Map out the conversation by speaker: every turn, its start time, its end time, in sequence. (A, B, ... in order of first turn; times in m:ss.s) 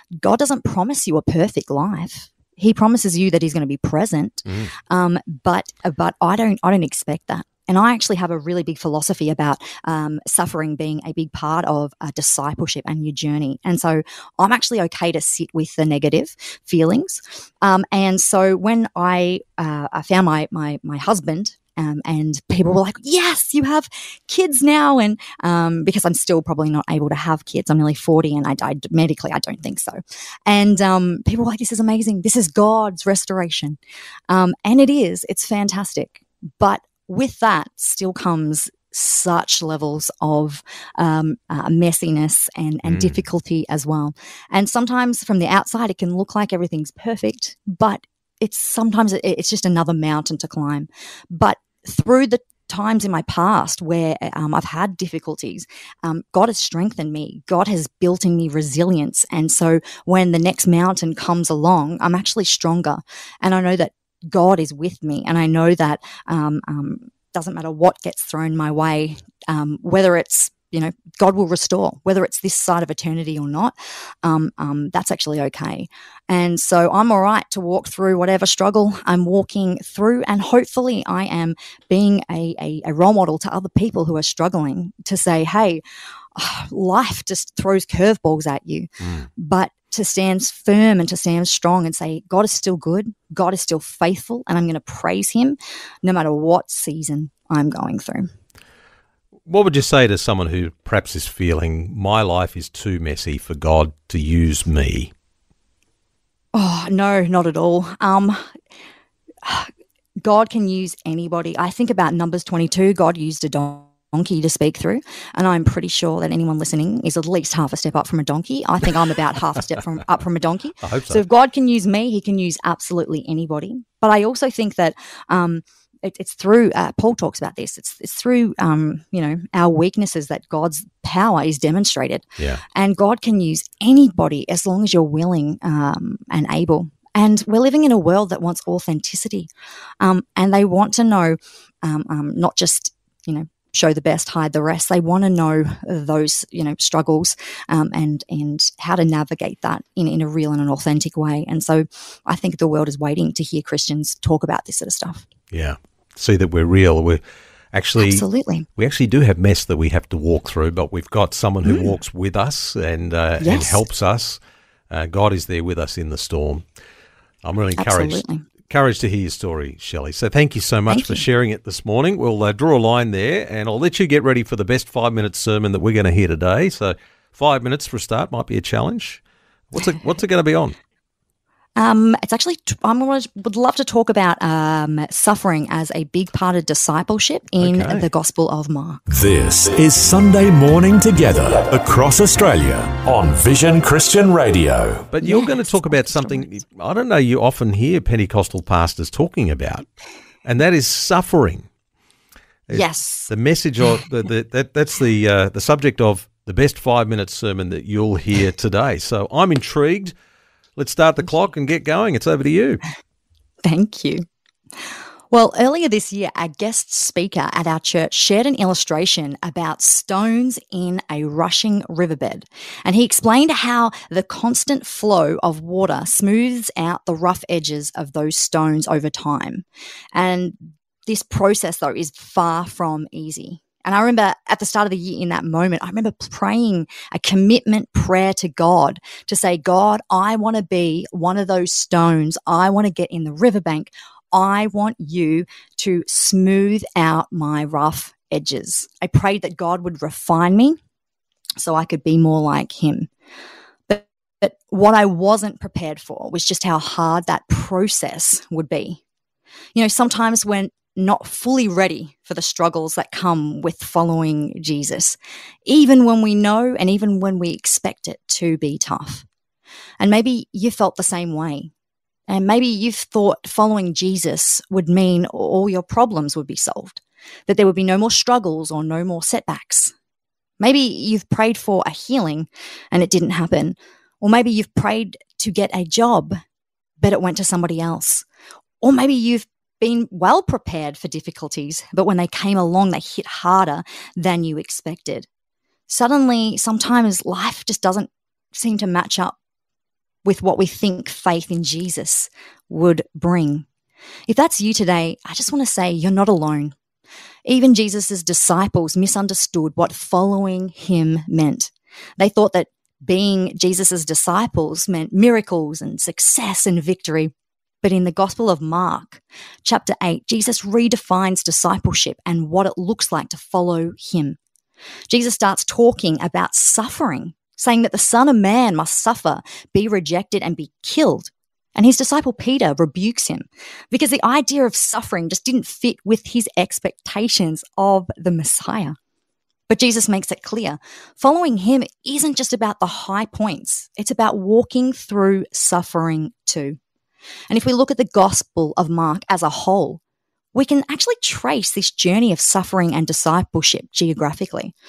0:00.2-0:33.8 A
0:04.5-0:04.7 B
0:34.3-1:25.8 A
0:42.8-0:43.2 B
1:26.4-1:38.3 A
1:29.0-1:29.3 B
1:39.5-1:45.1 B
1:46.5-1:48.5 A
1:49.4-1:49.7 A
1:50.2-2:19.5 A
2:00.8-2:01.2 B
2:20.0-2:35.2 A
2:35.5-2:37.2 B
2:37.7-2:44.4 B
2:38.0-2:38.7 A
2:41.6-2:42.0 A
2:43.4-2:43.8 A
2:44.9-2:46.6 B
2:47.4-2:59.2 B
2:47.8-2:48.4 A
2:50.9-2:51.2 A
2:59.7-3:00.8 B
3:01.8-3:09.0 A
3:07.6-3:08.1 B
3:09.1-3:15.1 C
3:15.1-3:19.9 B
3:15.2-3:16.5 A
3:20.4-3:21.7 B
3:22.7-3:30.1 B
3:22.7-3:23.3 A
3:30.8-3:32.8 B
3:33.6-3:34.3 A
3:35.3-4:10.8 A
4:11.6-4:13.1 A
4:13.9-4:19.0 A
4:19.7-4:29.2 A
4:30.0-4:31.7 A
4:32.3-4:39.9 A
4:40.6-4:46.4 A
4:47.0-4:48.2 A
4:48.8-4:55.3 A
4:55.9-4:59.4 A
5:00.2-5:03.7 A
5:04.3-5:06.8 A
5:07.4-5:24.4 A
5:25.1-5:39.0 A
5:39.7-5:46.8 A
5:47.5-5:50.0 A
5:50.5-5:54.7 A